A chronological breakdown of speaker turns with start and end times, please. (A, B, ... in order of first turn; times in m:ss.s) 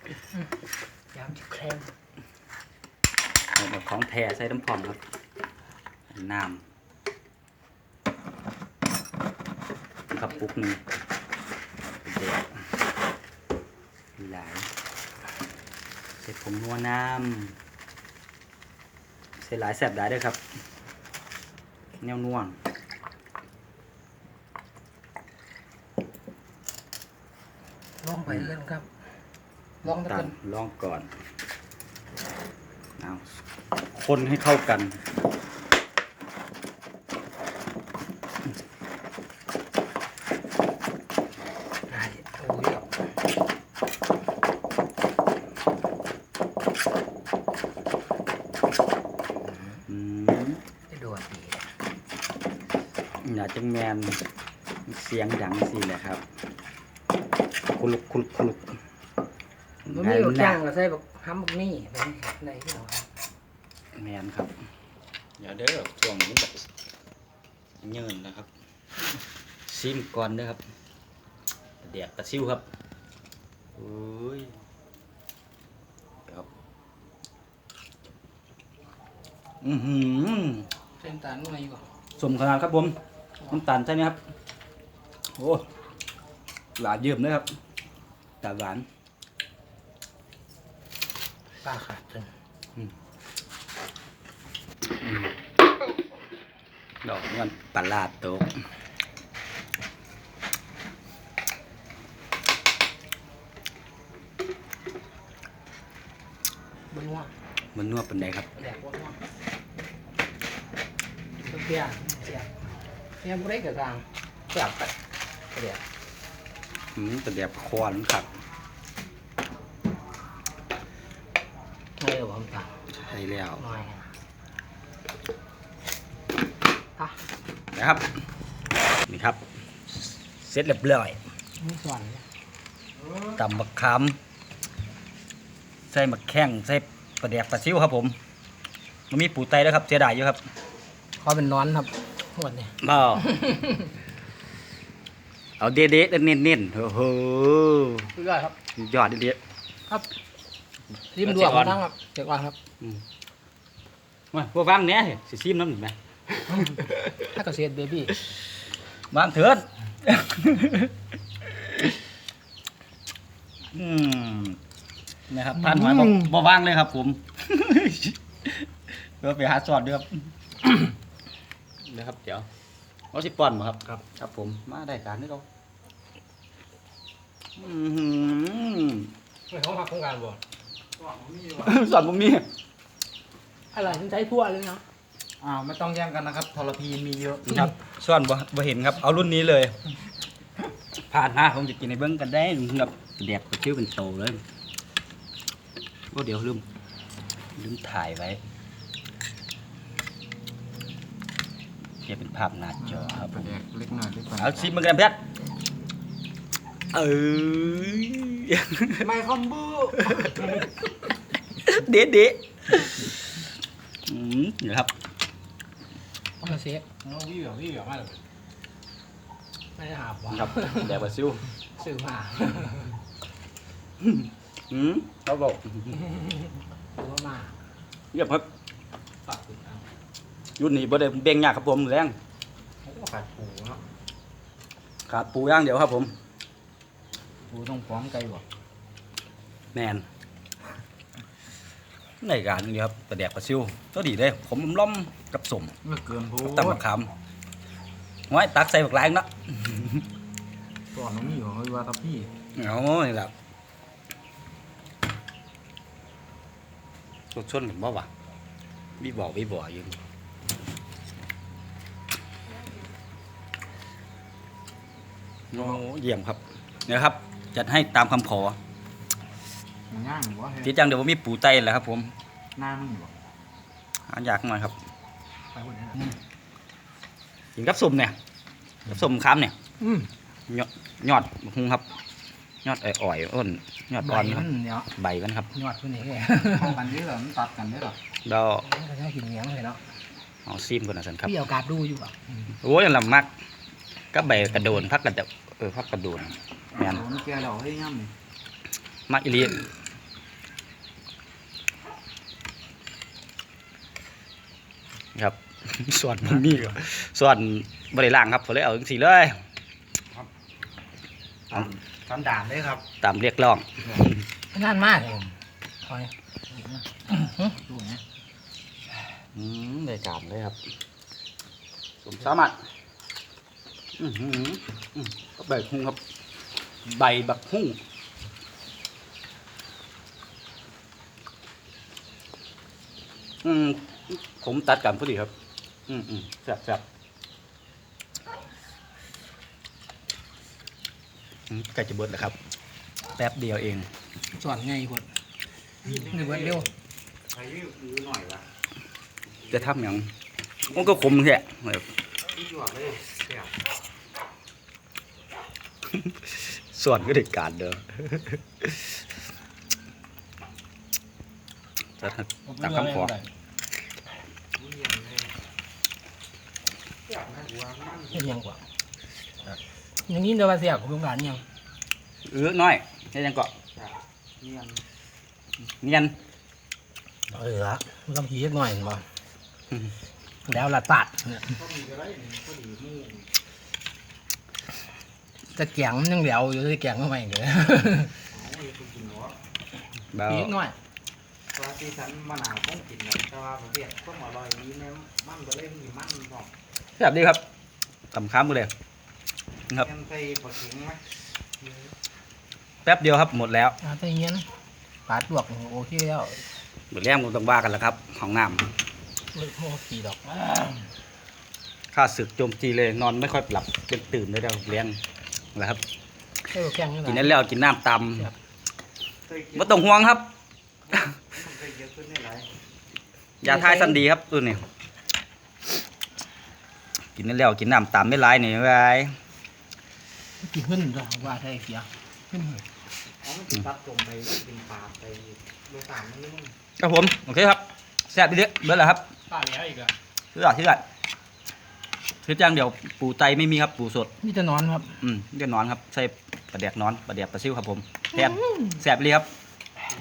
0:01.1-0:01.9 A
0:03.5-0:05.0 B
0:06.1-0:06.6 B
0:10.1-0:10.8 B
0:12.0-0:12.6 B
0:14.2-0:14.7 B
0:16.2-0:17.6 B
0:19.4-0:20.4 B
0:22.0-0:22.6 B
0:28.0-0:28.9 A
0:29.8-0:30.3 A
0:29.8-0:31.1 B
0:33.0-0:33.2 B
0:33.9-0:35.0 B
0:41.9-0:42.9 A
0:49.4-0:49.8 A
0:49.9-0:50.6 B
0:50.9-0:51.7 A
0:53.2-0:54.2 B
0:54.9-0:56.2 B
0:57.7-0:58.7 B
0:59.8-1:00.6 B
0:59.8-1:03.1 A
1:04.0-1:04.5 B
1:05.4-1:06.7 B
1:07.8-1:08.5 B
1:09.6-1:10.6 B
1:11.8-1:12.6 B
1:13.7-1:14.5 B
1:19.6-1:20.7 B
1:21.0-1:21.9 A
1:22.2-1:23.0 B
1:23.5-1:24.2 B
1:25.4-1:25.6 B
1:26.8-1:27.4 B
1:28.4-1:28.8 B
1:31.6-1:32.3 A
1:35.0-1:35.3 B
1:37.0-1:38.5 B
1:46.9-1:47.3 A
1:47.7-1:48.5 B
1:48.6-1:49.2 A
1:51.4-1:52.6 A
1:53.2-1:54.9 A
1:55.5-1:55.8 A
1:56.9-1:58.3 B
2:02.0-2:02.8 A
2:02.9-2:03.6 B
2:03.6-2:04.1 A
2:07.7-2:08.1 B
2:09.1-2:11.2 B
2:11.6-2:12.2 A
2:13.3-2:14.2 B
2:15.9-2:18.2 B
2:19.1-2:20.4 B
2:21.2-2:23.9 A
2:22.8-2:23.3 B
2:25.6-2:29.4 B
2:28.2-2:28.6 A
2:31.1-2:32.6 A
2:31.2-2:31.8 B
2:34.3-2:37.3 B
2:36.6-2:38.2 A
2:39.1-2:41.9 B
2:43.7-2:44.6 B
2:45.3-2:50.8 B
2:51.8-2:52.5 B
2:53.1-2:55.4 B
2:57.6-2:59.1 B
2:59.5-3:00.4 A
3:01.0-3:01.8 C
3:01.6-3:02.4 B
3:03.7-3:04.8 A
3:05.4-3:07.7 C
3:07.4-3:09.7 B
3:11.1-3:14.4 B
3:16.1-3:16.6 B
3:17.6-3:18.4 B
3:22.0-3:23.6 B
3:22.8-3:24.7 C
3:24.4-3:25.2 B
3:26.9-3:29.1 B
3:29.0-3:30.7 C
3:30.0-3:30.5 B
3:31.6-3:33.1 B
3:34.1-3:34.9 B
3:36.4-3:38.2 A
3:39.8-3:41.1 A
3:40.3-3:41.5 B
3:41.6-3:43.0 A
3:44.0-3:46.0 B
3:46.1-3:47.6 A
3:48.1-3:48.4 B
3:49.2-3:49.8 A
3:50.6-3:52.2 B
3:52.8-3:53.8 C
3:55.1-3:56.1 B
3:57.5-3:58.4 C
3:59.7-4:00.1 B
4:02.2-4:05.7 B
4:05.8-4:06.8 C
4:06.4-4:07.1 B
4:08.3-4:10.0 B
4:10.9-4:12.3 C
4:12.5-4:13.3 B
4:17.3-4:18.1 B
4:19.0-4:20.0 B
4:25.5-4:28.6 B
4:29.9-4:30.7 C
4:30.6-4:32.1 B
4:32.6-4:33.1 C
4:34.1-4:34.7 B
4:35.5-4:36.2 A
4:37.6-4:38.2 B
4:38.8-4:39.5 B
4:39.8-4:40.1 A
4:40.5-4:41.8 B
4:42.6-4:45.5 B
4:44.0-4:44.9 A
4:45.5-4:46.7 A
4:46.5-4:48.0 C
4:48.2-4:48.7 B
4:48.6-4:49.8 A
4:50.4-4:51.3 B
4:51.2-4:52.3 A
4:52.5-4:53.3 B
4:54.1-4:57.0 B
4:56.8-4:58.1 C
4:59.1-4:59.7 B
5:05.2-5:09.3 B
5:11.5-5:12.8 C
5:13.0-5:14.2 B
5:14.5-5:16.1 A
5:17.1-5:17.6 A
5:17.6-5:18.0 C
5:19.3-5:20.6 B
5:22.0-5:22.6 B
5:24.0-5:26.0 B
5:26.8-5:27.8 B
5:33.4-5:35.3 B
5:35.9-5:36.8 B
5:41.5-5:42.4 B
5:43.2-5:43.9 B
5:44.3-5:45.1 A
5:45.8-5:46.7 C
5:46.1-5:46.7 A
5:47.3-5:48.4 C
5:49.5-5:50.1 B
5:50.7-5:51.2 C
5:50.7-5:51.9 B
5:52.3-5:53.6 C
5:55.9-5:59.0 B
6:02.0-6:03.2 B
6:02.5-6:03.2 A
6:04.6-6:05.3 C
6:07.0-6:08.4 C
6:08.2-6:08.6 A
6:10.0-6:11.4 A
6:12.3-6:13.5 B
6:13.8-6:14.8 C
6:15.8-6:16.1 B
6:17.3-6:19.0 A
6:20.4-6:21.6 A
6:21.5-6:23.3 C
6:25.5-6:28.2 A
6:28.3-6:29.4 C
6:30.1-6:30.5 B
6:30.2-6:30.8 A
6:31.5-6:36.5 C
6:37.0-6:37.4 B
6:38.1-6:38.7 B
6:39.8-6:41.0 C
6:42.8-6:43.8 B
6:43.8-6:44.5 A
6:45.0-6:46.4 A
6:46.9-6:48.7 B
6:49.3-6:50.9 A
6:51.9-6:55.0 B
6:55.5-6:55.8 B
6:56.5-6:57.4 A
6:57.0-6:58.3 B
6:59.3-7:00.0 C
6:59.5-7:00.3 B
7:00.9-7:02.5 C
7:03.4-7:04.6 B
7:03.4-7:04.0 A
7:07.2-7:09.2 B
7:10.4-7:12.6 A
7:13.2-7:16.5 C
7:16.8-7:19.1 B
7:19.3-7:19.9 A
7:20.3-7:20.8 B
7:22.2-7:24.1 B
7:24.2-7:25.0 A
7:25.0-7:29.3 B